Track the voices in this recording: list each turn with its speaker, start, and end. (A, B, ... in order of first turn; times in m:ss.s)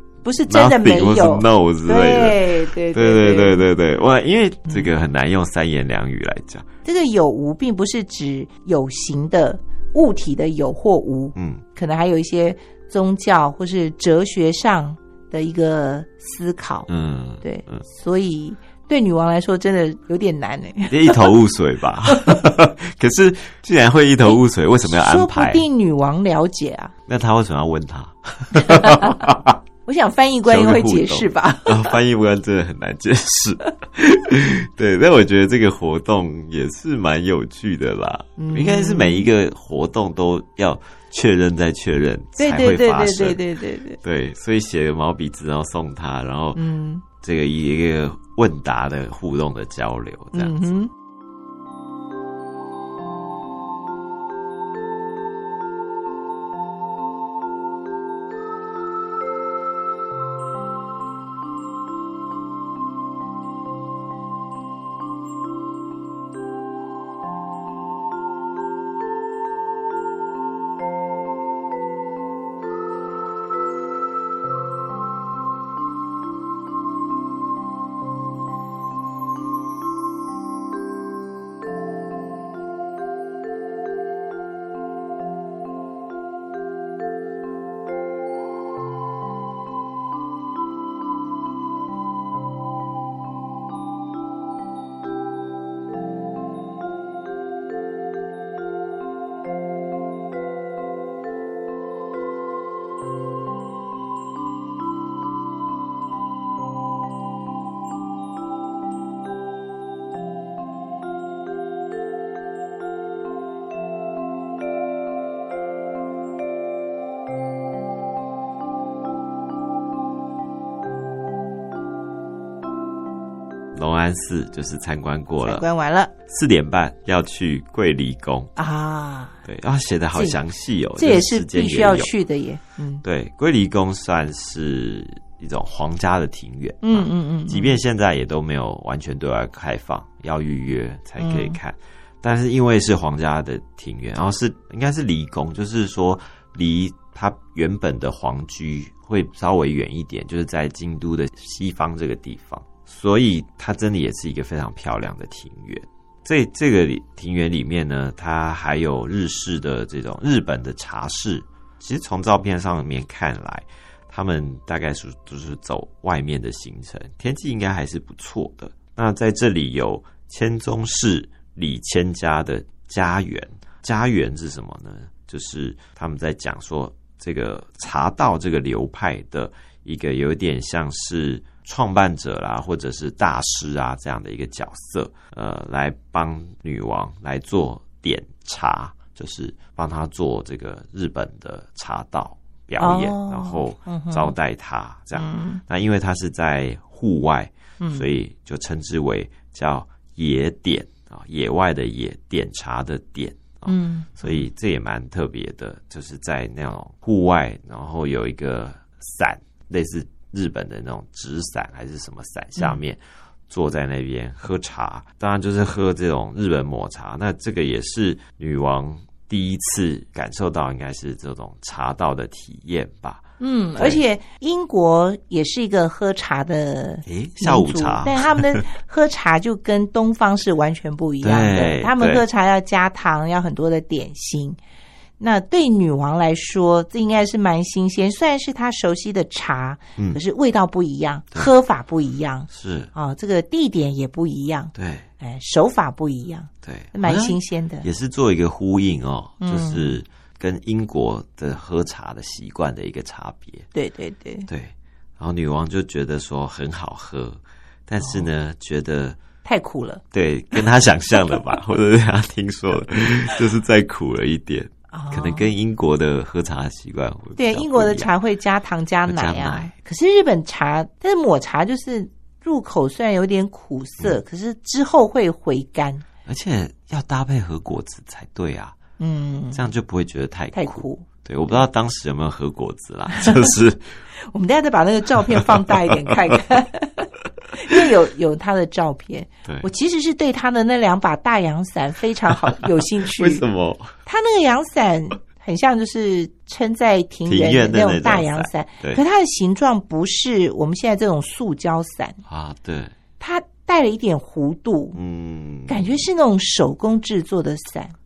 0:00.2-0:03.6 A
0:00.5-0:06.7 B
0:06.8-0:16.9 A
0:11.4-0:11.6 B
0:16.9-0:17.8 B
0:17.4-0:21.2 A
0:20.9-0:25.6 B
0:24.8-0:26.9 A
0:27.1-0:29.6 B
0:28.5-0:29.2 A
0:29.9-0:32.0 A
0:30.4-0:43.4 B
0:38.4-0:39.3 A
0:42.4-0:44.0 A
0:44.0-0:46.6 B
0:46.6-0:47.0 A
0:47.2-0:50.7 B
0:50.4-0:50.9 A
2:03.7-2:05.6 B
2:05.4-2:06.1 A
2:06.3-2:08.5 B
2:08.6-2:09.4 A
2:09.4-2:12.1 B
2:11.0-2:13.0 A
2:13.0-3:43.2 B
2:16.8-2:17.8 A
2:21.2-2:21.6 A
3:12.8-3:14.3 A
3:15.2-3:15.6 A
3:17.8-3:18.1 A
3:23.7-3:24.1 A
3:43.4-3:54.6 A
3:47.0-3:48.6 B
3:51.2-3:52.2 B
3:55.2-4:07.9 A
4:02.5-4:02.9 B
4:04.8-4:05.1 B
4:06.6-4:13.7 B
4:09.4-4:10.0 A
4:13.7-4:14.5 A
4:14.5-4:19.2 B
4:18.0-4:18.3 A
4:19.4-4:20.0 A
4:20.1-4:28.1 B
4:24.9-4:25.5 A
4:27.4-4:36.0 A
4:29.1-4:29.7 B
4:36.3-4:38.8 B
4:39.0-4:39.6 A
4:39.5-4:43.9 B
4:40.6-4:41.1 A
4:43.1-4:43.5 A
4:44.3-4:53.4 A
4:45.4-4:46.4 B
4:52.4-4:53.9 B
4:54.1-5:02.2 A
4:57.3-4:59.0 B
5:02.3-5:02.9 B
5:03.2-5:05.0 A
5:05.0-5:06.1 B
5:05.7-5:07.9 A